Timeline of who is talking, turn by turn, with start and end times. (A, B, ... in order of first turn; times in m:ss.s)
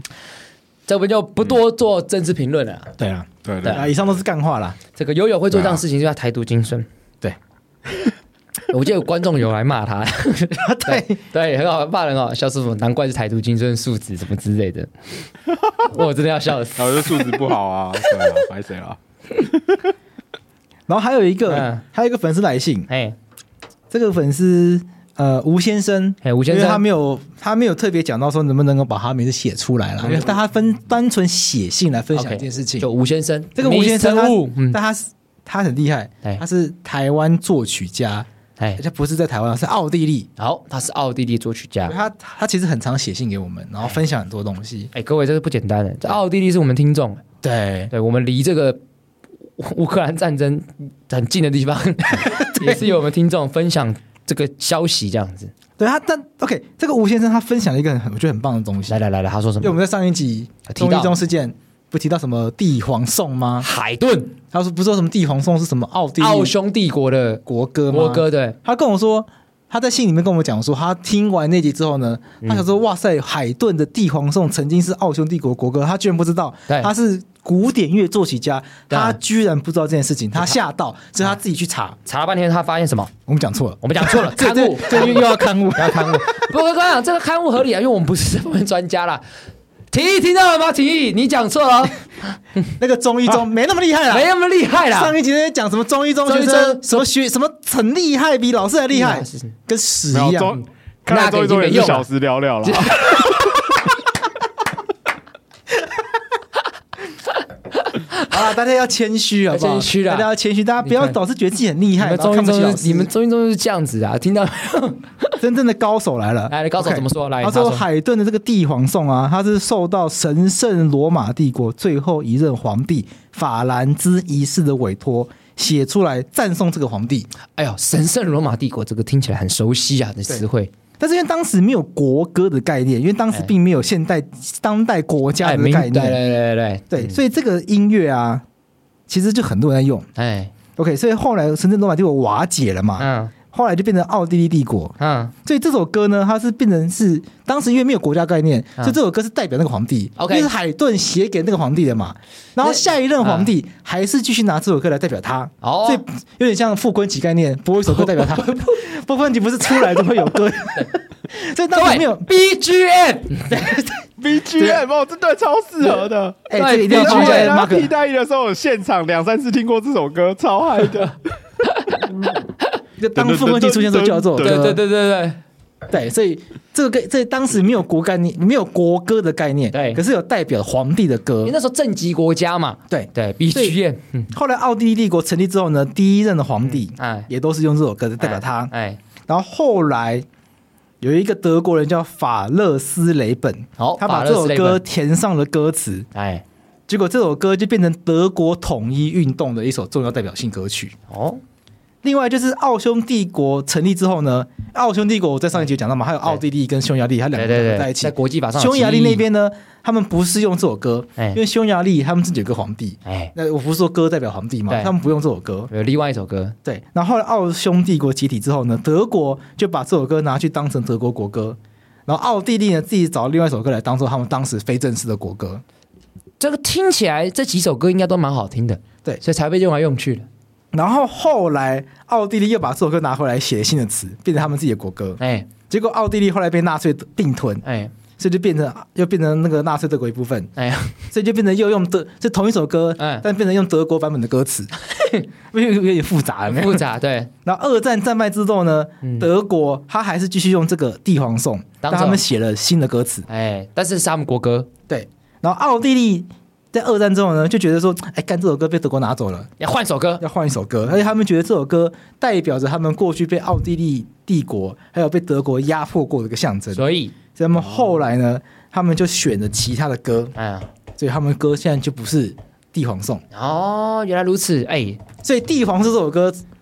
0:00.9-0:02.9 A
0:03.0-0:04.8 B
0:03.4-0:04.0 C
0:05.0-0:06.9 A
0:08.7-0:15.2 A
0:10.6-0:11.2 B
0:15.9-0:17.4 A
0:16.8-0:19.8 C
0:20.9-0:22.9 B
0:21.5-0:21.8 A
0:22.9-0:23.2 A
0:23.9-0:32.9 B
0:26.2-0:26.8 A
0:32.1-0:34.8 A
0:33.6-0:40.3 B
0:40.4-0:42.0 A
0:41.9-0:44.9 B
0:44.9-0:47.2 A
0:47.4-0:47.9 B
0:47.9-0:48.8 A
0:49.6-0:55.5 A
0:52.1-0:52.9 B
0:55.8-0:59.0 B
0:58.9-0:59.8 A
0:59.6-1:03.7 B
1:00.7-1:01.2 A
1:03.6-1:04.3 A
1:04.5-1:06.6 B
1:06.2-1:08.6 A
1:07.5-1:22.0 B
1:18.9-1:19.2 A
1:22.1-1:23.1 A
1:23.3-1:26.5 B
1:23.8-1:29.2 A
1:29.9-1:32.0 A
1:32.8-1:34.3 B
1:34.1-1:35.2 A
1:34.9-1:40.6 B
1:36.3-1:37.0 A
1:38.9-1:39.5 A
1:40.1-1:43.6 C
1:41.1-1:42.1 A
1:42.6-1:43.2 A
1:47.8-1:48.3 A
1:48.3-1:53.1 B
1:49.5-1:50.3 A
1:50.8-1:51.2 A
1:52.0-1:55.4 A
1:55.4-2:07.3 B
1:56.5-1:57.8 A
2:07.6-2:10.7 A
2:11.0-2:16.2 B
2:15.4-2:17.2 A
2:16.9-2:18.4 B
2:19.1-2:20.1 B
2:20.2-2:20.5 A
2:20.8-2:42.3 B
2:23.0-2:23.3 A
2:25.0-2:25.3 A
2:30.2-2:30.5 A
2:32.6-2:33.5 A
2:35.6-2:36.0 A
2:37.9-2:38.7 A
2:41.7-2:43.4 A
2:43.5-2:44.8 B
2:44.2-2:51.2 C
2:46.5-2:47.9 B
2:46.6-2:47.6 A
2:51.6-2:52.0 A
2:53.0-2:54.8 B
2:53.2-2:54.7 C
2:54.4-2:55.4 A
2:55.9-3:01.6 B
2:59.7-3:00.0 A
3:01.4-3:04.3 A
3:02.9-3:03.8 B
3:04.3-3:08.7 B
3:06.7-3:07.3 A
3:08.2-3:09.0 A
3:09.3-3:10.2 B
3:11.0-3:16.1 B
3:13.8-3:14.8 A
3:16.1-3:16.4 A
3:16.9-3:21.0 B
3:21.1-3:21.4 A
3:22.0-3:35.7 B
3:27.4-3:29.2 A
3:33.0-3:33.3 A
3:34.7-3:34.9 A
3:35.7-3:36.6 A
3:36.6-3:45.6 B
3:46.4-3:50.3 A
3:50.7-3:57.6 B
3:55.2-3:55.5 A
3:57.6-3:57.9 A
3:58.2-4:00.5 B
4:00.6-4:01.0 A
4:01.1-4:04.7 B
4:03.0-4:03.3 A
4:04.9-4:05.3 A
4:05.5-4:06.9 B
4:06.5-4:07.3 A
4:07.4-4:13.3 B
4:09.0-4:09.3 A
4:11.8-4:12.2 A
4:13.3-4:14.7 A
4:14.9-4:19.5 B
4:19.6-4:20.2 A
4:20.2-4:30.4 B
4:26.7-4:27.2 A
4:30.4-4:30.7 A
4:31.0-4:33.2 B
4:33.3-4:35.0 A
4:35.2-4:36.4 B